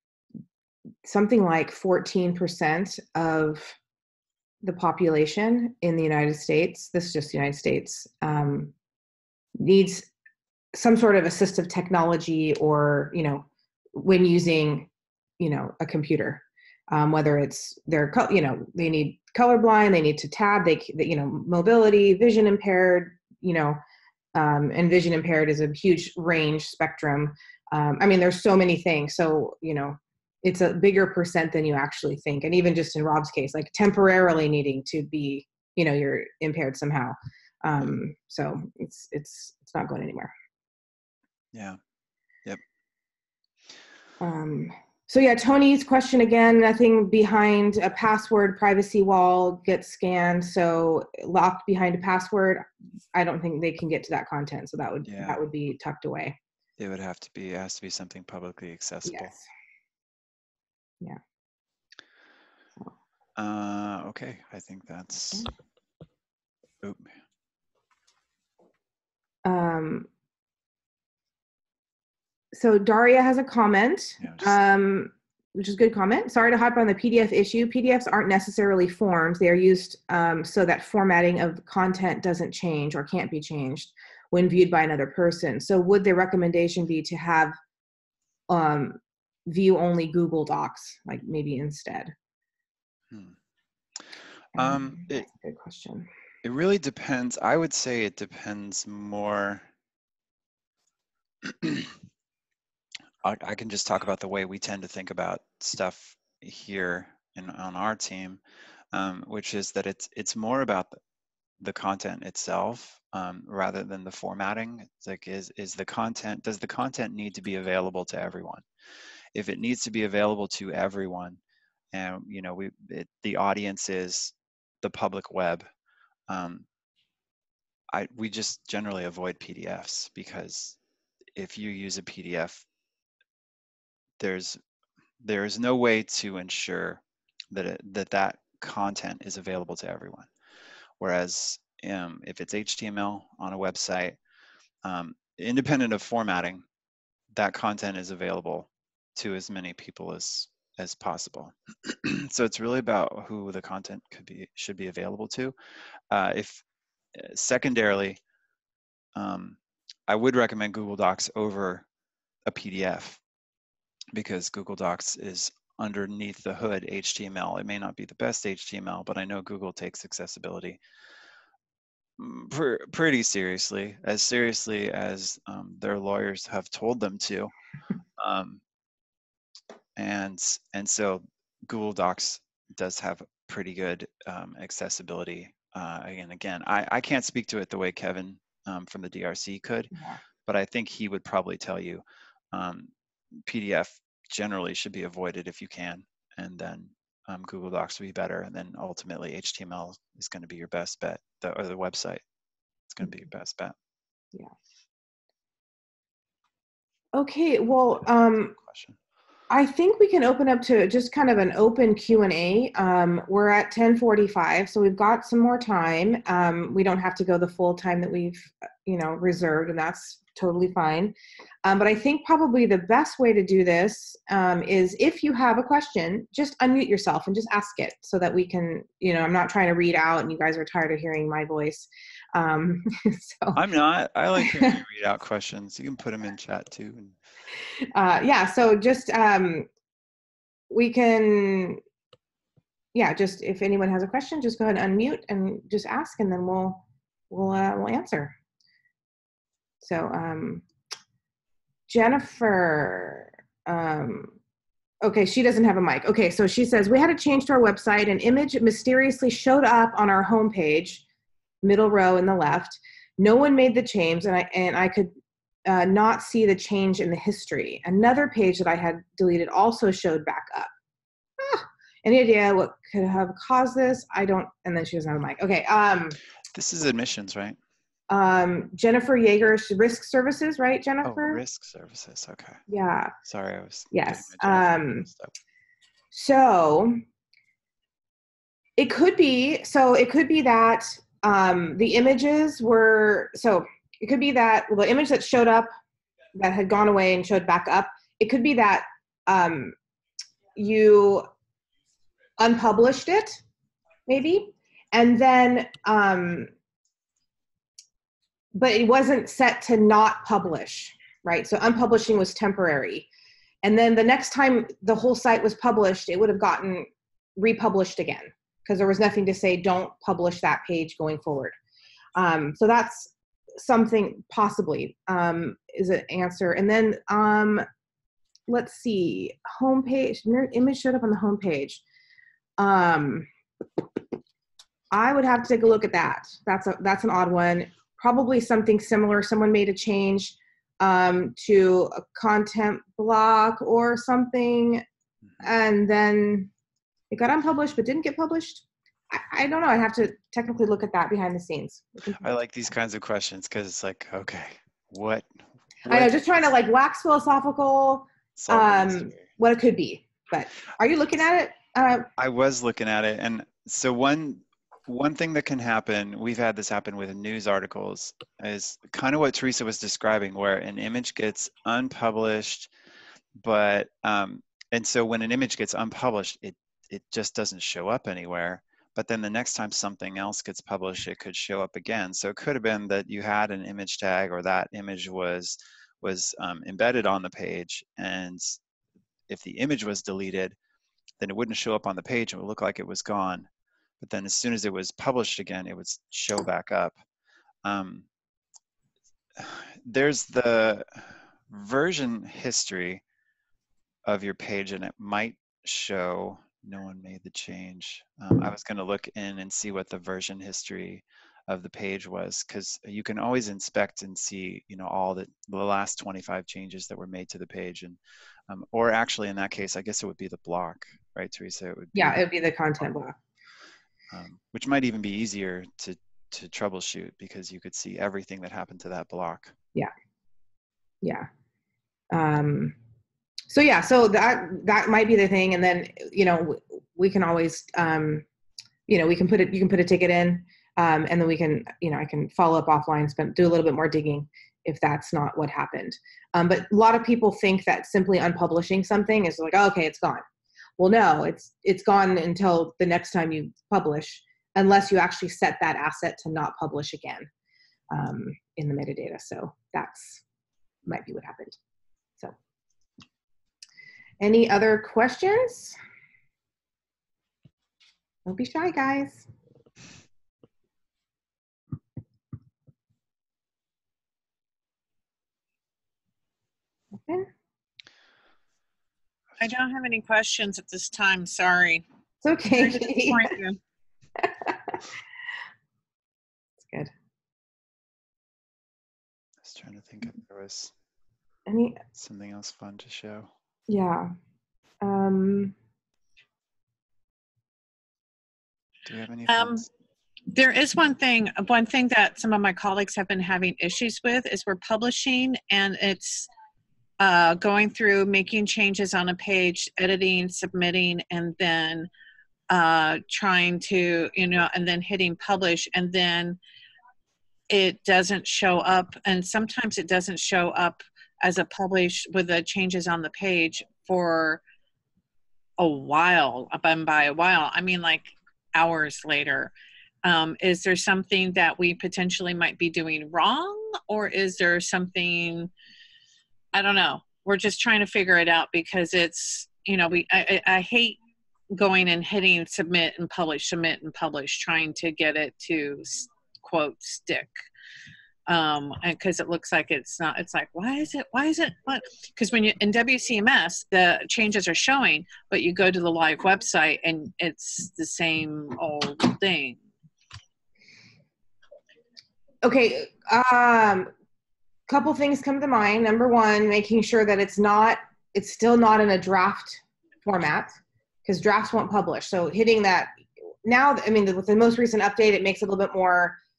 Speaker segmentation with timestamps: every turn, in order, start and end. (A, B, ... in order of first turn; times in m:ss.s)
0:01.0-0:03.8 A
0:04.6-0:08.7 A
0:09.6-0:10.1 A
0:10.7-0:23.8 A
0:24.4-0:40.3 A
0:41.5-0:41.8 B
0:44.2-0:56.4 A
0:55.0-0:55.4 B
0:56.8-0:59.3 B
0:59.1-0:59.4 A
1:03.4-1:05.5 B
1:06.8-1:07.1 B
1:09.5-1:10.1 A
1:12.5-1:27.6 A
1:14.2-1:14.6 B
1:28.5-1:32.1 A
1:33.1-1:33.4 B
1:34.6-1:35.3 B
1:34.6-1:36.1 A
1:36.4-1:39.7 B
1:41.4-1:42.0 B
1:43.2-1:48.4 B
1:48.9-1:51.0 B
1:51.6-1:58.6 B
1:59.4-2:01.4 B
2:01.9-2:05.7 B
2:06.3-2:06.7 B
2:07.9-2:10.8 B
2:11.4-2:12.6 B
2:14.2-2:14.6 B
2:15.2-2:20.3 B
2:21.0-2:24.2 B
2:24.8-2:26.6 B
2:27.3-2:35.5 B
2:36.1-2:36.6 B
2:37.2-2:38.2 B
2:39.2-2:41.8 B
2:42.5-2:43.2 B
2:44.1-2:50.8 B
2:52.2-2:57.5 B
2:58.2-2:58.6 B
3:00.0-3:09.9 B
3:10.5-3:22.2 B
3:22.9-3:23.8 B
3:27.1-3:28.6 A
3:28.0-3:29.0 B
3:29.5-3:53.6 A
3:53.6-3:57.2 B
3:54.4-3:54.8 A
3:58.0-3:59.7 A
4:00.7-4:01.8 A
4:02.9-4:08.3 A
4:09.8-4:10.6 A
4:11.9-4:14.4 A
4:15.0-4:21.0 A
4:21.6-4:25.1 A
4:25.7-4:30.7 A
4:31.4-4:36.2 A
4:36.5-4:37.6 B
4:38.1-4:41.4 A
4:41.0-4:42.6 B
4:42.7-4:43.1 A
4:43.2-4:45.3 B
4:43.9-4:45.1 A
4:46.1-4:47.0 A
4:48.8-4:55.7 A
4:56.4-4:59.8 A
5:00.6-5:01.3 A
5:02.4-5:03.4 A
5:04.1-5:06.5 A
5:08.6-5:13.1 A
5:13.6-5:21.6 A
5:22.2-5:27.7 A
5:28.5-5:31.8 A
5:32.6-5:33.3 A
5:34.9-5:44.8 A
5:45.4-5:46.5 A
5:47.1-5:52.3 A
5:52.2-5:55.3 B
5:55.8-5:56.1 B
5:55.9-6:02.1 A
5:58.4-5:59.2 B
6:02.2-6:12.7 B
6:13.4-6:28.6 B
6:29.3-6:30.6 B
6:31.2-6:33.5 B
6:34.0-6:37.0 B
6:37.6-6:38.1 B
6:39.4-6:43.0 B
6:44.0-6:58.0 B
6:58.5-7:02.2 B
7:02.0-7:03.2 A
7:04.1-7:09.6 B
7:12.1-7:12.8 A
7:13.5-7:18.2 A
7:18.9-7:30.2 A
7:30.8-7:37.3 A
7:37.9-7:40.2 A
7:40.9-7:41.6 A
7:44.2-7:45.8 A
7:48.3-7:49.2 A
7:59.4-8:01.8 C
8:02.2-8:03.3 A
8:02.6-8:03.6 C
8:04.2-8:04.8 A
8:06.6-8:06.9 A
8:09.4-8:10.7 B
8:11.5-8:11.8 A
8:12.0-8:13.3 B
8:13.7-8:14.1 A
8:14.8-8:15.6 A
8:18.9-8:19.7 B
8:19.3-8:19.6 C
8:20.3-8:26.3 C
8:27.0-8:31.9 C
8:32.5-8:36.4 C
8:37.5-8:44.4 C
8:45.6-8:49.5 C
8:50.0-8:55.5 C
8:56.5-9:01.0 C
9:01.5-9:07.3 C
9:08.3-9:19.6 C
9:22.4-9:23.9 A
9:24.7-9:36.2 A